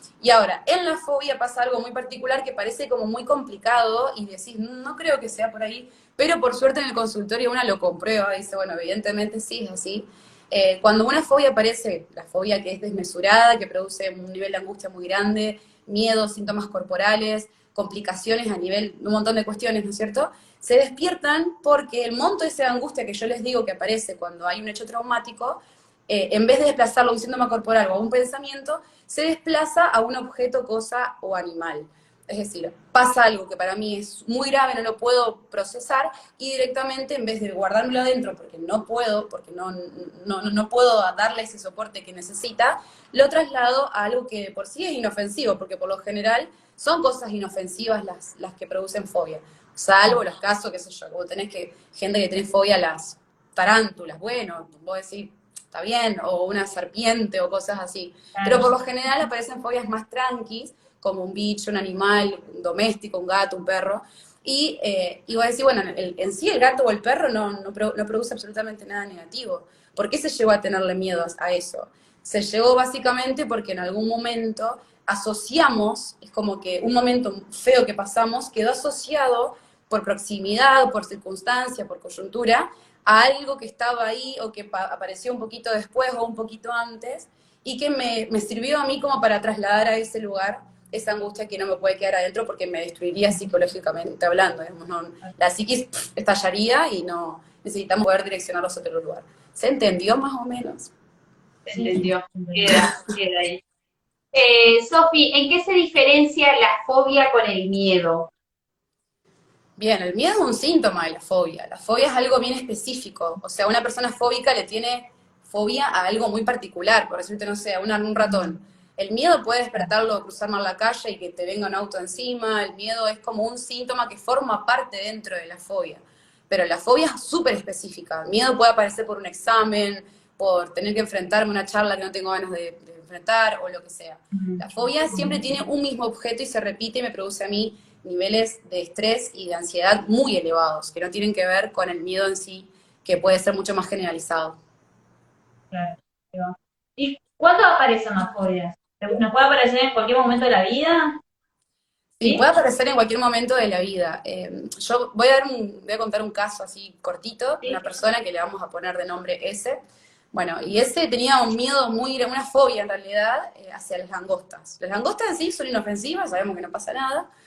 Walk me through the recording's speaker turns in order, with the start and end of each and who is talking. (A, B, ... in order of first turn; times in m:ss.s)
0:00.2-1:40.9 A
0:58.4-0:58.7 B
1:41.7-1:43.6 C
1:41.7-1:42.8 B
1:44.3-1:48.3 C
1:49.8-2:24.6 A
2:14.3-2:15.4 B
2:25.7-2:31.2 B
2:32.2-2:39.8 A
2:40.3-2:47.3 A